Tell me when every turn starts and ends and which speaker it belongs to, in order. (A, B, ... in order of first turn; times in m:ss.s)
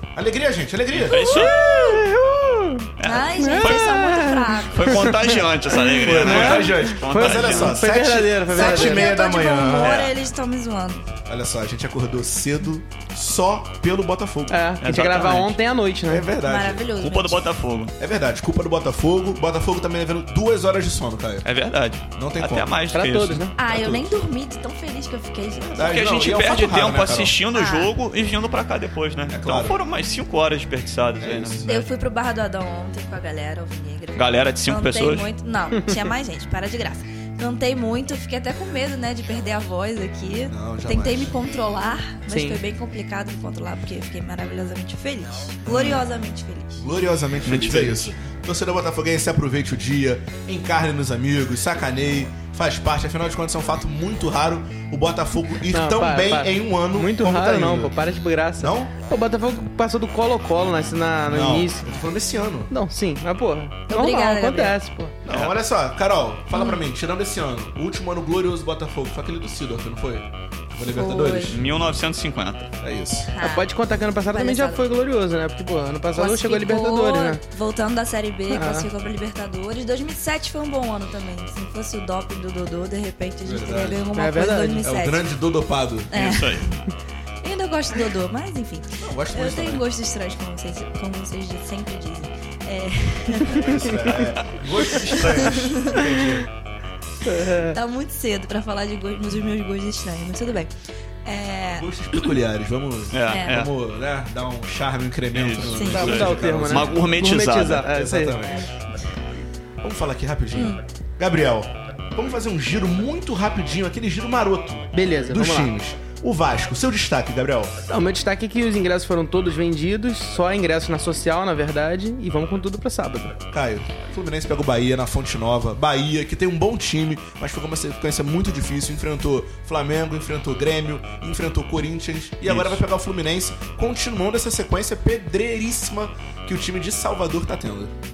0:00.2-0:01.2 A
0:00.9-0:01.6 B
0:01.1-0:02.0 C
0:01.3-0:09.1 D
0:03.0-0:07.8 B
0:03.0-0:05.3 C
0:06.0-0:10.0 A
0:08.5-0:11.0 C
0:09.8-0:10.2 B
0:11.3-0:14.6 A
0:14.5-0:16.3 D
0:14.8-0:15.6 B
0:16.1-0:16.9 A
0:16.4-0:17.4 C
0:17.0-0:17.9 B
0:18.0-0:21.5 A
0:21.4-0:23.5 B
0:22.1-0:22.7 A
0:22.9-0:23.6 D
0:23.6-0:26.0 C
0:23.7-0:24.1 A
0:25.7-0:27.4 A
0:25.8-0:31.6 B
0:27.5-0:27.9 C
0:29.3-0:29.8 A
0:31.2-0:31.9 A
0:31.7-0:46.8 C
0:34.2-0:35.3 B
0:40.5-0:41.4 A
0:42.3-0:42.6 D
0:45.7-0:46.0 A
0:46.8-0:57.9 A
0:47.4-0:48.1 B
0:55.7-1:01.8 D
0:58.6-0:58.9 A
1:01.3-1:02.7 A
1:02.7-1:05.2 D
1:03.9-1:04.8 C
1:05.2-1:11.6 A
1:05.3-1:05.5 B
1:06.5-1:06.8 C
1:10.9-1:11.6 C
1:11.5-1:12.7 B
1:12.8-1:13.3 A
1:13.3-1:13.7 C
1:13.4-1:17.4 D
1:14.3-1:14.8 C
1:16.1-1:25.3 C
1:18.5-1:18.9 D
1:23.4-1:24.1 A
1:24.1-1:25.0 D
1:24.8-1:26.1 A
1:26.1-1:26.8 C
1:26.1-1:26.7 B
1:27.4-1:34.1 C
1:29.0-1:29.8 A
1:33.5-1:36.5 A
1:35.1-1:36.1 C
1:35.2-1:35.4 B
1:37.2-1:37.8 D
1:37.7-1:40.7 C
1:41.2-1:42.4 C
1:41.7-1:47.2 A
1:43.1-1:43.7 B
1:43.3-1:43.6 C
1:45.3-1:47.9 B
1:45.7-1:46.1 C
1:45.9-1:48.4 D
1:47.9-1:48.7 A
1:49.8-1:57.7 A
1:50.6-1:50.8 C
1:54.9-1:55.7 D
1:57.9-2:03.4 D
2:03.5-2:17.9 A
2:12.4-2:12.8 B